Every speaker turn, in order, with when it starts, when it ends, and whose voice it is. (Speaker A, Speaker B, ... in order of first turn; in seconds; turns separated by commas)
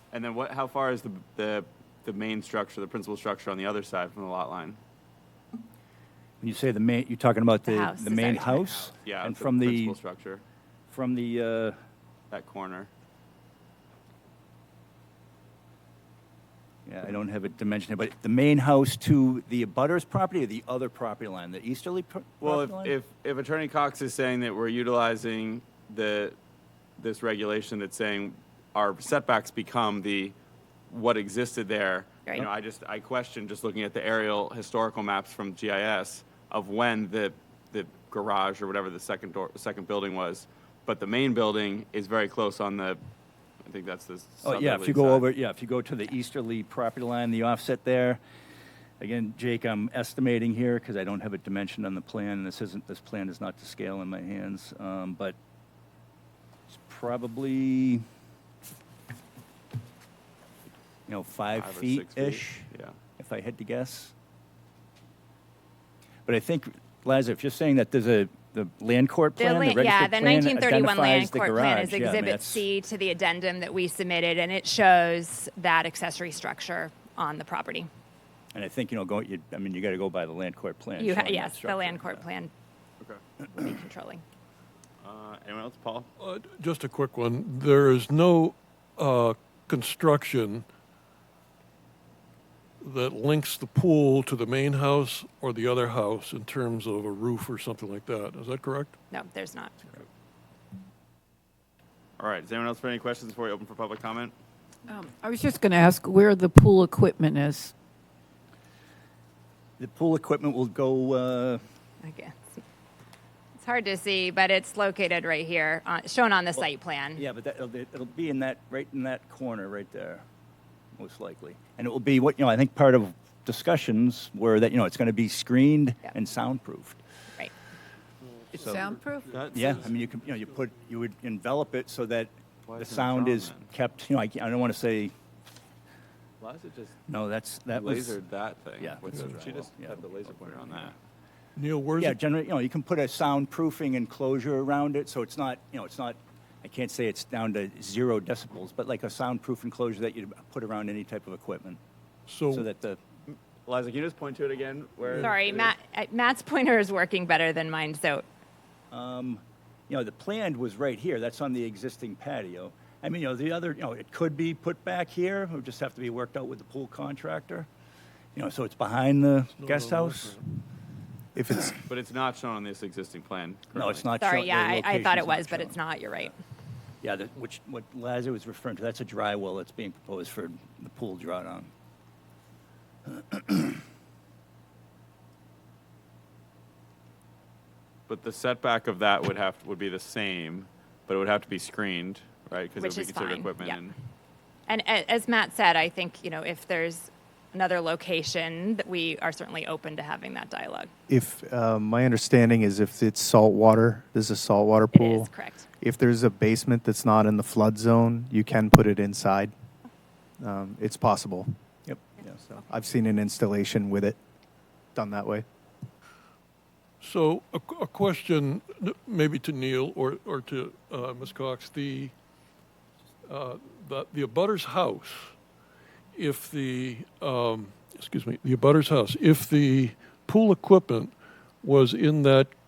Speaker A: 0.1-4.8, Speaker B: 6.4-10.0, Speaker C: 7.7-8.7, Speaker A: 9.0-10.4, Speaker B: 10.9-11.8, Speaker A: 12.3-12.9, Speaker B: 16.9-22.9, Speaker A: 22.4-26.4, Speaker A: 27.0-30.4, Speaker A: 30.9-43.0, Speaker A: 43.6-45.3, Speaker B: 44.4-48.2, Speaker B: 49.0-55.4, Speaker B: 56.7-58.0, Speaker B: 61.1-64.1, Speaker A: 61.5-63.0, Speaker B: 66.2-72.7, Speaker C: 69.4-77.9, Speaker B: 78.5-82.2, Speaker C: 81.0-82.5, Speaker C: 83.6-84.2, Speaker A: 85.0-86.1, Speaker D: 86.2-90.7, Speaker D: 92.8-98.9, Speaker C: 99.1-99.9, Speaker A: 102.2-104.3, Speaker E: 104.9-107.7, Speaker B: 109.8-111.6, Speaker C: 112.0-112.6, Speaker C: 113.6-117.2, Speaker B: 116.5-120.2, Speaker B: 120.9-127.0, Speaker D: 128.4-130.0, Speaker E: 128.5-129.3, Speaker A: 129.3-129.9, Speaker B: 129.5-135.1, Speaker A: 132.7-133.7, Speaker A: 136.4-137.0, Speaker B: 137.1-138.2, Speaker A: 137.7-140.9, Speaker B: 138.8-140.9, Speaker D: 141.6-142.2, Speaker B: 142.0-151.8, Speaker D: 152.3-152.7, Speaker B: 152.5-153.0, Speaker A: 153.3-155.7, Speaker C: 155.2-158.2, Speaker B: 158.9-167.7, Speaker B: 168.3-170.4, Speaker D: 169.6-170.4, Speaker F: 171.3-171.7, Speaker A: 171.9-174.1, Speaker B: 173.7-176.3, Speaker C: 174.2-176.3, Speaker B: 177.0-181.7, Speaker B: 183.1-183.8, Speaker A: 188.1-193.9, Speaker C: 192.8-193.8, Speaker C: 194.7-200.9, Speaker F: 201.1-209.5, Speaker C: 204.9-205.6, Speaker F: 210.4-211.6, Speaker F: 212.3-214.2, Speaker F: 214.9-215.5, Speaker D: 217.0-222.1, Speaker D: 223.3-225.3, Speaker D: 226.1-232.5